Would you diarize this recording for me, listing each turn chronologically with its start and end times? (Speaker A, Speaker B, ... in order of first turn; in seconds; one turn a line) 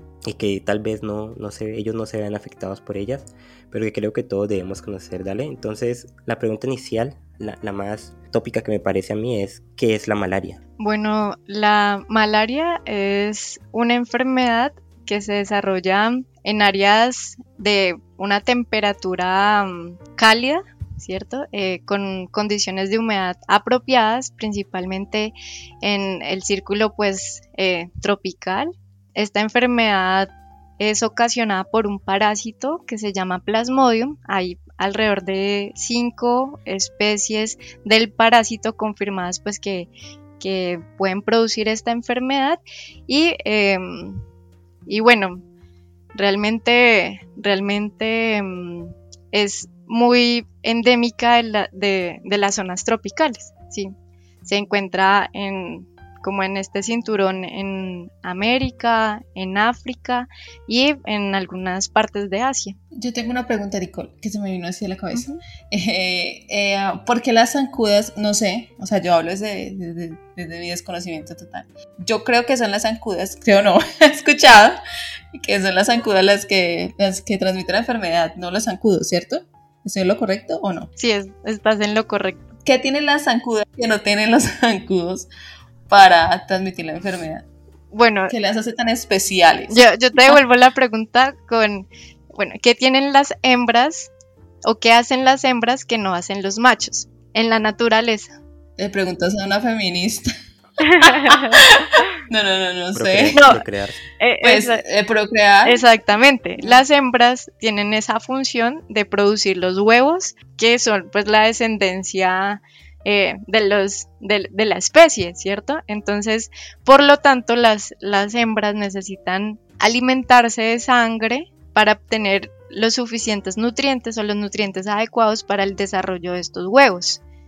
Speaker A: 0.3-10.6
Speaker B: 10.8-39.9
Speaker B: 40.4-44.2
Speaker B: 44.9-45.4
Speaker B: 46.1-53.9
Speaker B: 54.5-62.8
Speaker C: 62.9-74.8
Speaker B: 65.1-65.4
Speaker C: 75.3-80.9
Speaker B: 81.0-82.5
Speaker C: 82.6-85.3
Speaker C: 85.9-87.5
Speaker B: 87.9-88.3
Speaker C: 88.3-90.4
Speaker B: 89.7-94.1
Speaker B: 94.7-98.3
Speaker C: 98.8-100.2
Speaker B: 100.8-102.1
Speaker C: 101.0-101.4
Speaker C: 102.3-103.5
Speaker A: 102.9-104.0
Speaker B: 103.3-103.6
Speaker B: 104.2-104.8
Speaker C: 104.4-105.8
Speaker B: 105.7-127.2